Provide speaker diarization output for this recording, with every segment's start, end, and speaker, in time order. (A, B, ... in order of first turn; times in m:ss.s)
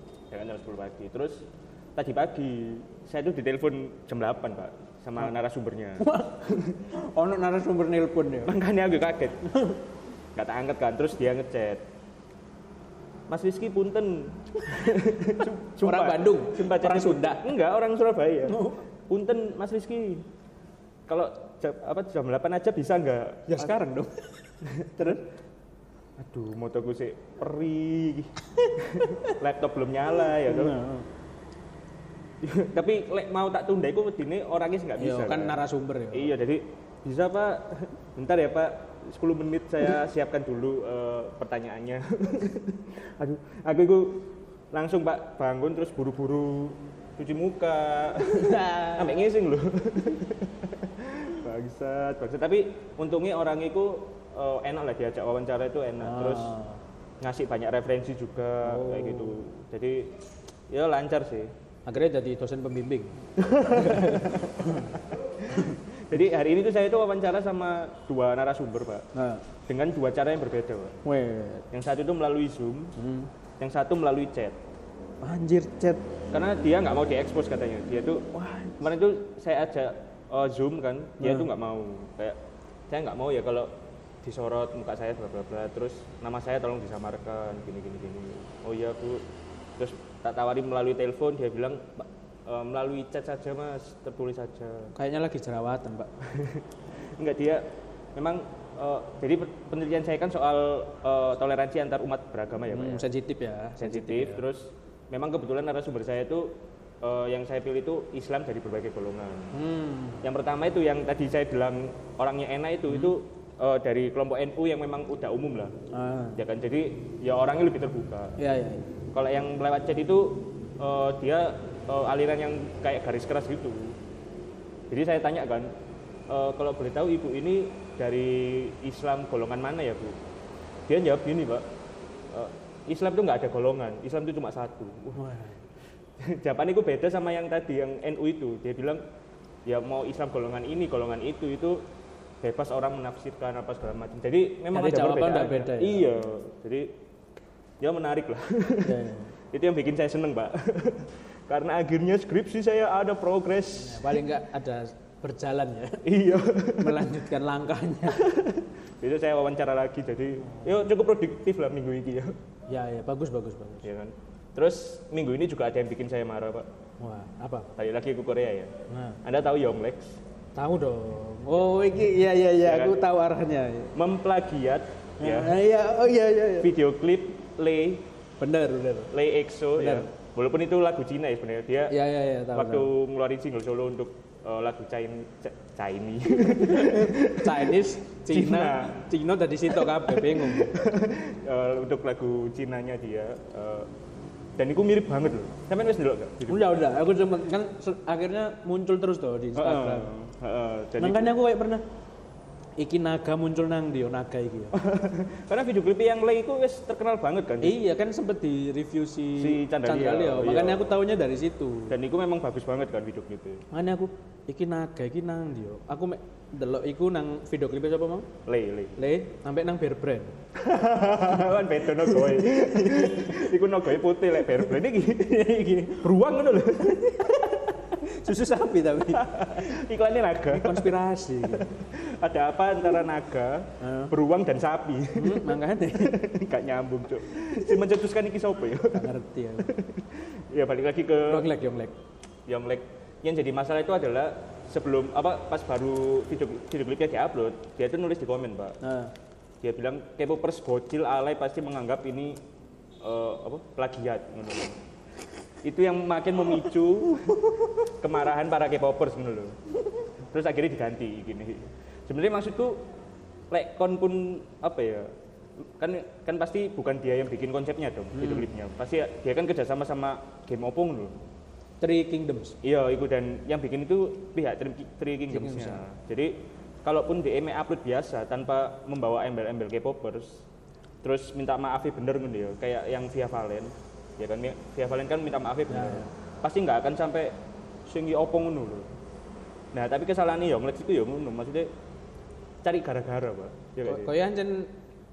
0:00.3-0:06.7 A
0:06.0-0:08.6 B
0:08.4-0:09.4 A
0:09.5-0:09.8 B
0:10.3-0:11.8 A
0:13.3-0:20.2 A
0:15.8-0:17.4 B
0:18.4-0:18.8 B
0:21.0-0:23.8 A
0:23.5-0:25.2 B
0:24.6-0:25.2 A
0:26.2-0:30.8 A
0:28.6-0:29.4 B
0:30.3-0:31.0 B
0:32.4-0:35.6 A
0:35.0-0:36.4 B
0:36.1-0:56.6 A
0:48.2-0:49.2 B
0:56.0-0:56.8 B
0:57.2-1:01.5 A
0:58.6-0:59.4 B
1:01.8-1:05.8 B
1:03.4-1:04.5 A
1:05.4-1:09.1 A
1:09.1-1:09.4 B
1:09.6-1:11.0 A
1:11.0-1:11.6 B
1:11.7-1:12.9 A
1:13.0-1:13.3 B
1:13.6-1:14.6 A
1:15.2-1:16.0 B
1:16.3-1:18.2 A
1:18.3-1:18.9 B
1:18.8-1:22.4 A
1:21.2-1:21.5 B
1:22.9-1:23.7 A
1:24.2-1:29.2 A
1:29.8-1:34.9 A
1:34.9-1:36.1 B
1:36.2-1:43.0 A
1:42.7-1:44.4 B
1:43.8-1:49.5 A
1:49.5-1:50.2 B
1:50.2-1:55.7 A
1:55.9-1:56.4 B
1:56.4-1:58.4 A
1:58.4-1:58.8 B
1:59.1-2:04.0 A
2:04.9-2:05.7 A
2:06.3-2:10.2 A
2:10.8-2:11.7 A
2:12.3-2:15.3 A
2:15.1-2:15.6 B
2:16.2-2:19.0 A
2:19.6-2:21.9 A
2:22.4-2:27.0 A
2:24.7-2:26.1 B
2:27.8-2:34.0 A
2:28.8-2:29.3 B
2:33.8-2:36.2 B
2:36.0-2:37.1 A
2:36.8-2:38.2 B
2:38.1-2:42.4 A
2:42.7-2:43.9 B
2:43.8-2:46.7 A
2:47.0-2:47.7 B
2:47.8-2:50.2 A
2:48.9-2:49.2 B
2:50.6-2:54.0 B
2:52.6-2:53.0 A
2:53.9-2:55.6 A
2:55.2-2:56.7 B
2:56.6-2:58.1 A
2:58.4-2:59.1 B
2:59.1-3:09.0 A
2:59.8-3:00.1 B
3:01.9-3:02.9 B
3:06.4-3:10.8 B
3:09.7-3:13.9 A
3:14.6-3:16.8 A
3:16.5-3:20.1 B
3:19.5-3:21.3 A
3:21.0-3:21.8 B
3:22.8-3:24.8 B
3:24.7-3:27.8 A
3:27.6-3:32.0 B
3:29.4-3:31.0 A
3:31.9-3:33.6 A
3:33.7-3:38.3 B
3:38.4-3:38.9 A
3:39.0-3:40.4 B
3:40.5-3:47.5 A
3:41.8-3:43.6 B
3:44.4-3:44.8 B
3:45.3-3:46.1 B
3:46.8-3:49.8 B
3:49.1-4:01.5 A
3:50.5-3:51.7 B
3:53.8-3:54.1 B
3:55.2-3:56.2 B
3:57.3-3:57.7 B
3:58.9-3:59.7 B
4:01.3-4:02.0 B
4:02.5-4:08.8 A
4:08.8-4:09.1 B
4:09.6-4:12.4 A
4:13.0-4:14.8 A
4:15.6-4:19.6 A
4:20.3-4:22.8 A
4:23.5-4:25.1 A
4:25.8-4:31.2 A
4:28.1-4:28.5 B
4:31.8-4:32.6 B
4:32.6-4:40.4 A
4:35.3-4:35.8 B
4:41.0-4:48.9 A
4:45.7-4:46.1 B
4:49.7-4:51.7 A
4:52.6-4:54.2 A
4:53.8-4:54.7 B